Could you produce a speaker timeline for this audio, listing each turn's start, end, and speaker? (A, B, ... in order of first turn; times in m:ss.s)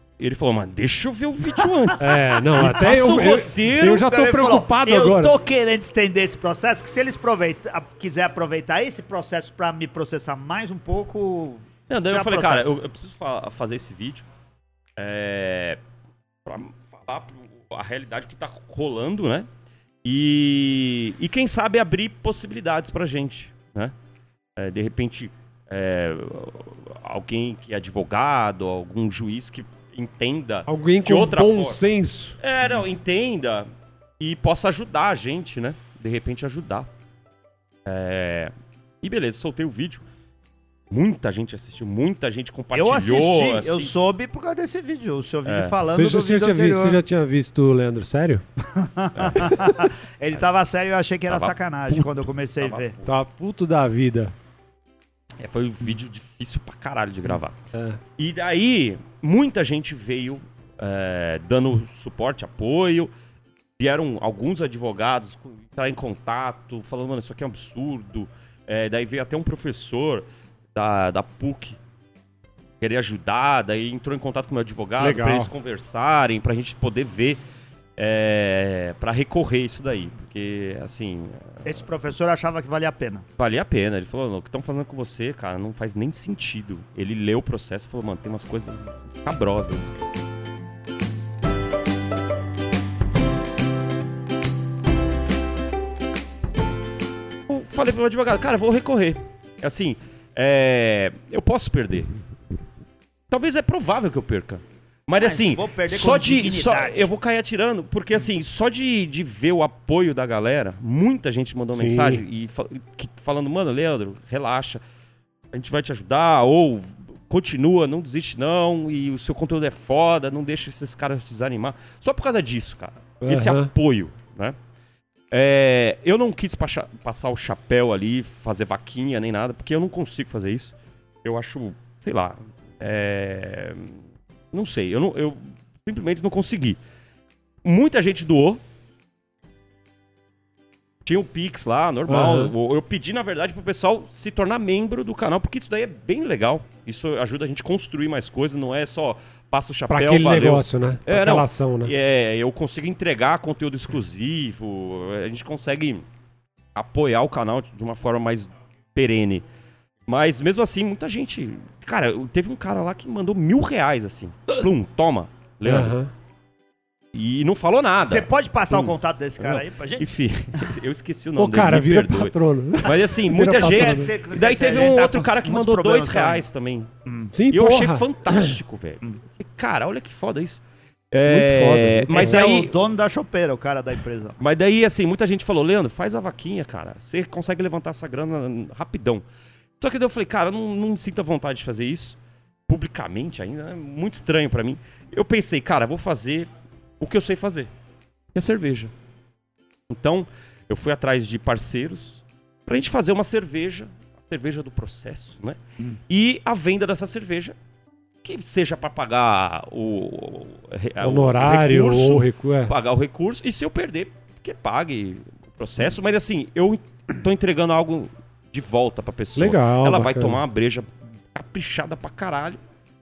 0:00.2-0:04.0 A
0:02.0-0:05.3 B
0:03.9-0:12.7 C
0:11.9-0:14.2 A
0:15.0-0:15.8 A
0:16.4-0:19.5 A
0:20.0-0:23.9 A
0:24.6-0:31.8 A
0:30.7-0:32.4 B
0:32.4-0:33.7 A
0:34.2-0:36.9 A
0:37.9-0:40.0 A
0:40.9-0:43.9 A
0:42.7-0:47.0 C
0:45.4-0:45.8 A
0:45.9-0:48.4 B
0:48.6-0:53.0 C
0:49.2-0:49.7 A
0:51.3-0:53.1 A
0:53.0-0:54.3 B
0:55.4-0:57.6 A
0:57.7-0:58.0 B
0:58.2-1:03.1 A
1:03.8-1:11.8 A
1:12.8-1:17.4 A
1:15.0-1:15.5 B
1:18.0-1:21.8 A
1:21.6-1:23.2 C
1:23.4-1:30.2 A
1:37.5-1:42.1 A
1:43.3-1:54.8 A
1:45.2-1:47.1 C
1:51.7-1:52.2 B
1:55.5-2:04.6 A
2:03.2-2:03.7 B
2:05.3-2:14.0 A
2:14.5-2:16.8 A
2:17.6-2:18.6 A
2:21.1-2:36.0 A
2:22.1-2:22.5 B
2:29.9-2:31.9 B
2:36.8-2:39.4 A
2:40.1-2:46.0 A
2:45.6-2:46.1 B
2:47.1-2:56.9 A
2:48.1-2:50.1 C
2:51.4-2:54.1 B
2:53.6-2:56.4 C
2:57.1-2:57.3 C
2:57.3-2:58.5 B
2:57.5-3:00.6 A
3:01.1-3:02.7 A
3:01.3-3:02.4 B
3:02.1-3:04.4 C
3:04.4-3:09.2 A
3:09.8-3:16.5 A
3:17.0-3:17.7 A
3:18.3-3:18.9 A
3:19.9-3:25.6 A
3:26.1-3:27.6 A
3:28.2-3:42.6 A
3:31.0-3:32.7 B
3:39.4-3:40.4 B